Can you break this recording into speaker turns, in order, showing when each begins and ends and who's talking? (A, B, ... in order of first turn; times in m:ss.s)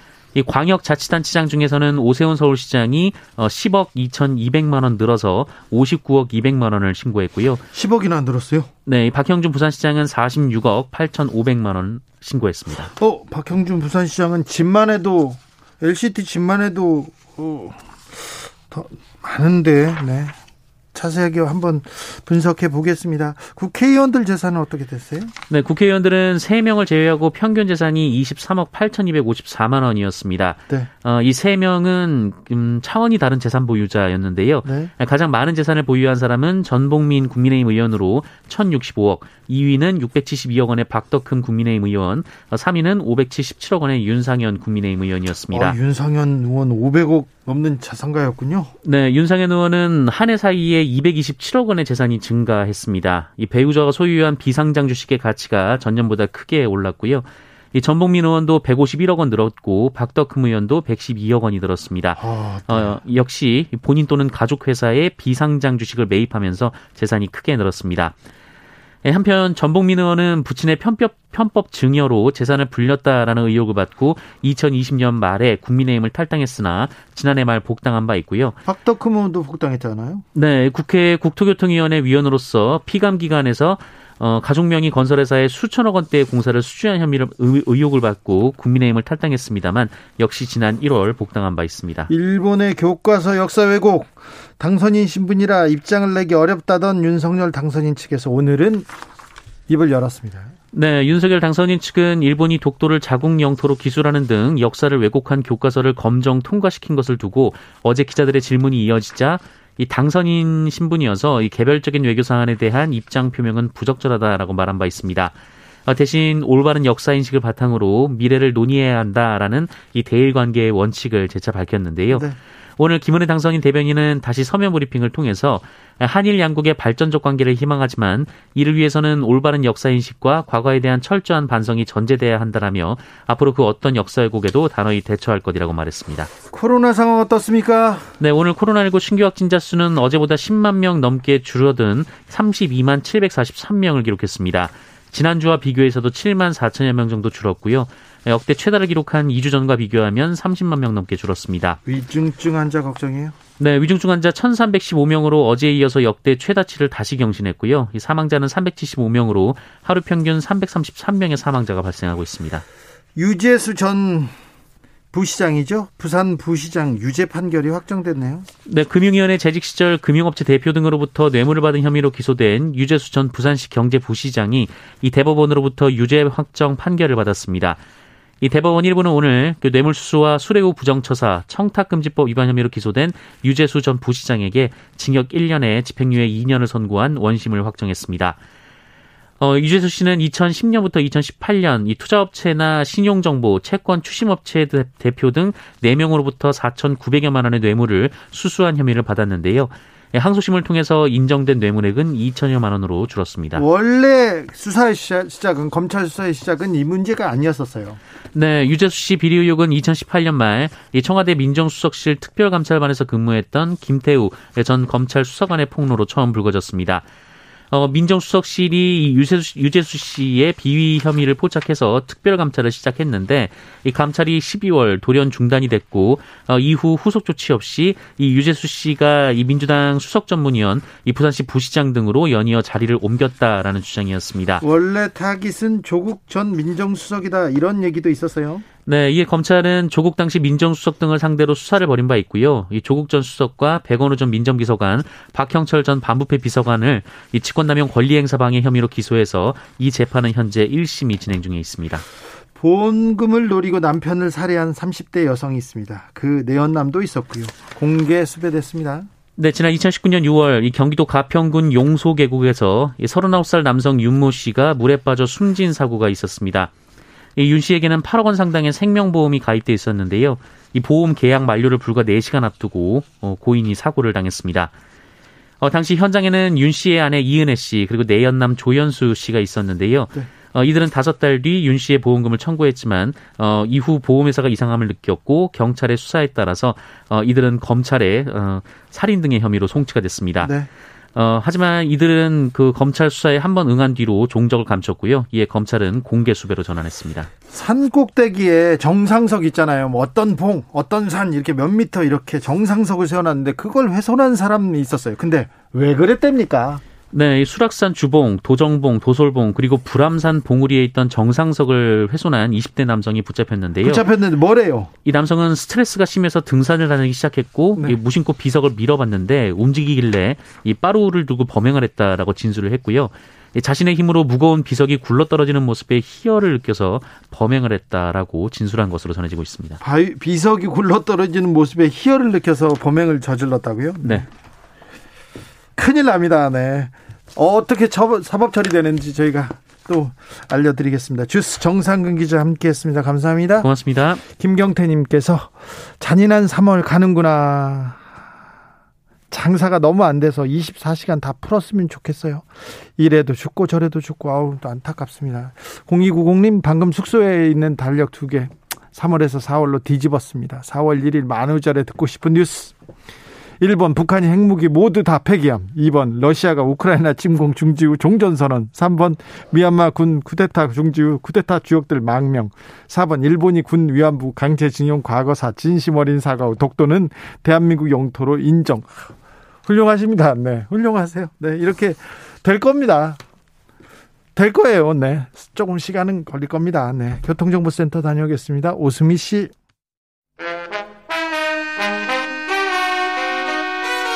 0:00.3-0:07.6 A
0:07.7-0:08.7 B
0:08.8-0:12.9 A
0:12.9-0:20.4 B
0:20.9-0:25.3 B
0:25.5-0:45.8 A
0:34.6-0:34.9 B
0:45.5-0:48.7 B
0:48.8-1:08.1 A
1:02.2-1:03.0 B
1:09.0-1:18.6 A
1:18.6-1:20.2 B
1:20.3-1:32.1 A
1:32.1-1:38.9 B
1:39.7-1:40.5 B
1:40.7-2:02.3 A
2:02.8-2:16.3 A
2:16.5-2:18.1 B
2:18.2-2:31.8 A
2:31.8-2:33.3 B
2:33.6-2:42.6 A
2:43.1-2:44.3 B
2:45.1-2:48.5 B
2:48.6-2:57.8 A
2:58.4-3:08.4 A
3:09.4-3:23.6 A
3:23.5-3:28.0 B
3:28.3-3:37.0 A
3:37.7-3:54.6 A
3:54.6-3:58.6 B
3:58.8-4:12.0 A
4:12.6-4:19.1 B
4:19.4-4:26.7 A
4:27.4-4:34.7 A
4:35.6-4:50.5 A
4:50.4-4:50.7 B
4:51.1-4:57.3 A
4:57.5-5:06.8 B
5:07.1-5:14.0 A
5:13.8-5:14.9 B
5:15.0-5:29.8 A
5:29.8-5:34.2 B
5:35.8-5:43.7 B
5:43.6-5:44.2 A
5:44.3-5:48.0 B
5:49.3-5:52.4 B
5:53.0-6:02.7 B
6:03.6-6:19.1 B
6:19.6-6:23.2 B
6:24.3-6:29.5 B